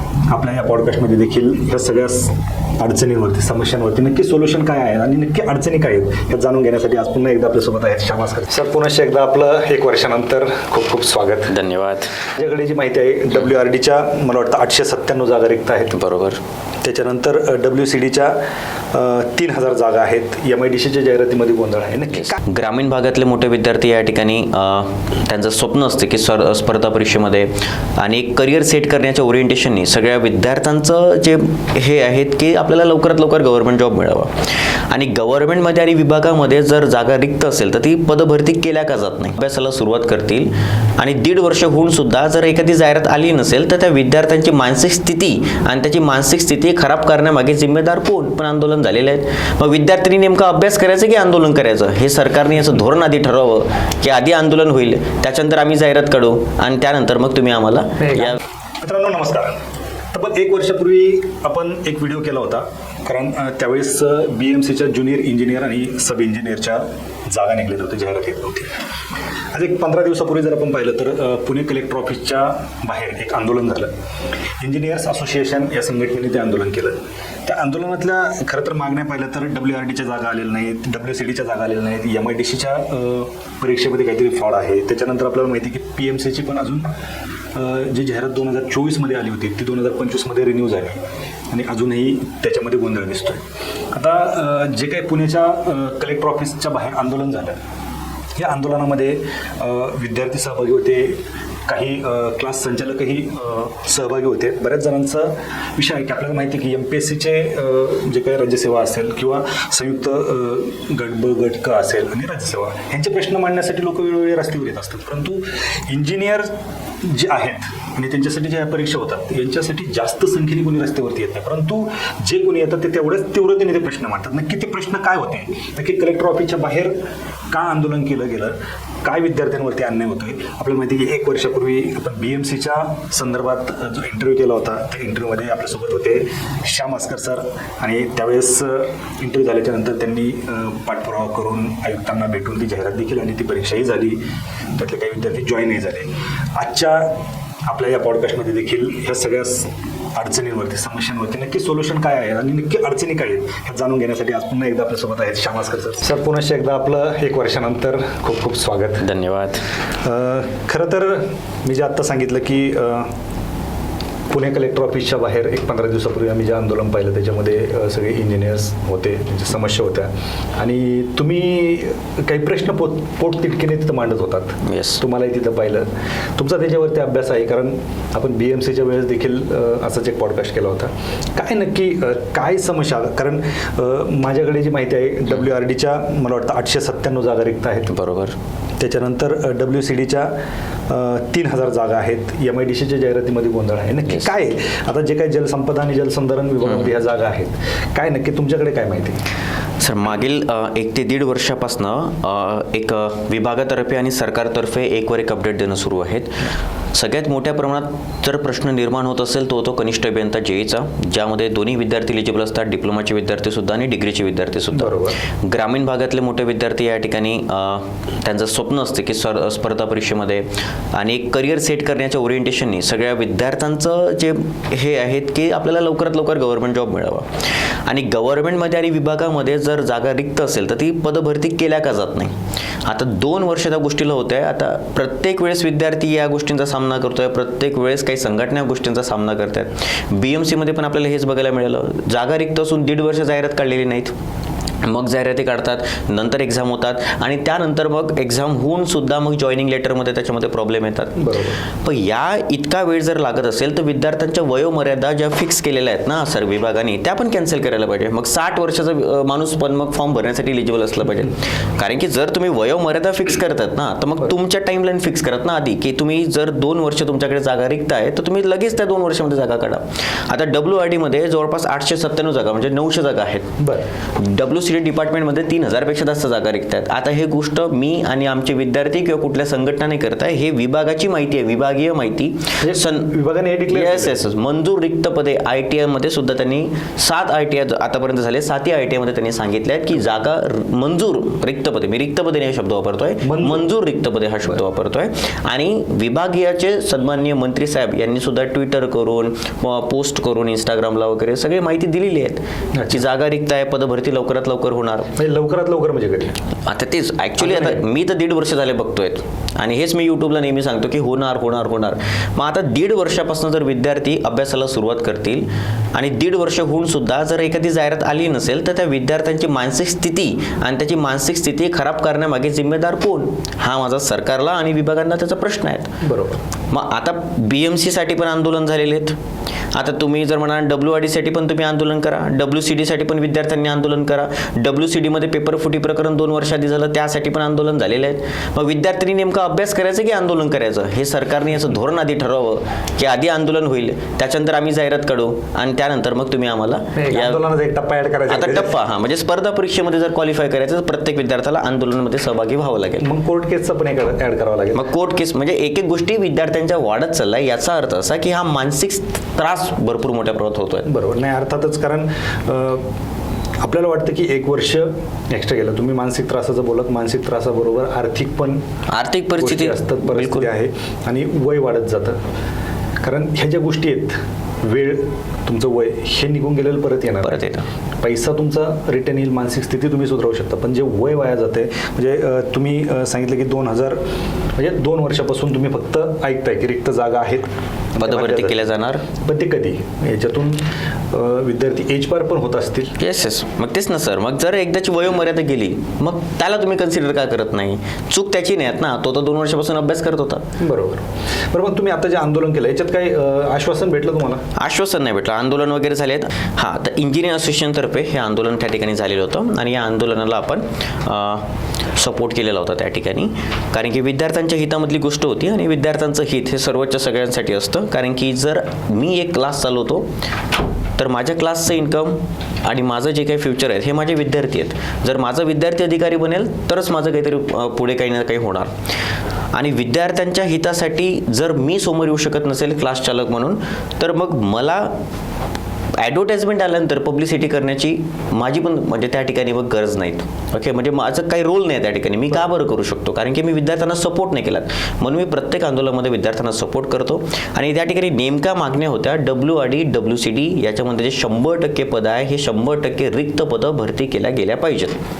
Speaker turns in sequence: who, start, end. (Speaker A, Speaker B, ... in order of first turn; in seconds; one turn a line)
Speaker A: 0.3-11.6
Speaker B: 11.5-12.2
Speaker A: 12.3-16.0
Speaker B: 15.9-16.4
Speaker A: 16.8-18.4
Speaker A: 18.9-22.4
Speaker B: 22.4-34.3
Speaker B: 34.9-58.4
Speaker A: 58.0-59.5
Speaker A: 60.1-68.7
Speaker A: 69.5-73.9
Speaker A: 74.6-86.9
Speaker A: 87.5-97.6
Speaker A: 98.4-116.5
Speaker A: 117.0-126.9
Speaker A: 127.5-144.2
Speaker A: 144.7-147.1
Speaker A: 147.7-159.1
Speaker B: 159.0-159.6
Speaker A: 160.0-163.1
Speaker A: 164.3-188.0
Speaker B: 174.6-175.0
Speaker B: 187.9-188.3
Speaker A: 188.8-190.3
Speaker A: 190.9-199.2
Speaker B: 199.8-206.3
Speaker B: 206.9-227.3
Speaker A: 214.7-215.2
Speaker B: 227.8-232.3
Speaker B: 232.8-244.1
Speaker B: 244.8-251.2
Speaker A: 251.2-251.6
Speaker B: 251.8-273.5
Speaker A: 273.6-273.9
Speaker B: 274.1-283.1
Speaker A: 282.6-284.2
Speaker B: 283.7-305.1
Speaker A: 293.2-293.7
Speaker A: 302.7-303.0
Speaker A: 305.1-306.3
Speaker B: 306.7-325.9
Speaker A: 307.4-307.8
Speaker A: 326.0-326.4
Speaker B: 326.7-329.1
Speaker B: 329.7-347.4
Speaker A: 346.9-348.7
Speaker B: 348.3-353.1
Speaker A: 353.0-354.8
Speaker B: 354.7-360.8
Speaker A: 360.8-362.9
Speaker A: 363.6-368.6
Speaker B: 368.9-370.5
Speaker A: 369.4-372.2
Speaker A: 373.0-377.4
Speaker B: 377.2-377.6
Speaker A: 378.0-384.0
Speaker A: 384.6-388.6
Speaker B: 388.0-389.0
Speaker A: 389.2-392.9
Speaker B: 393.0-400.4
Speaker A: 400.6-404.4
Speaker B: 404.6-420.1
Speaker B: 421.0-428.7
Speaker B: 429.5-434.9
Speaker B: 436.0-455.0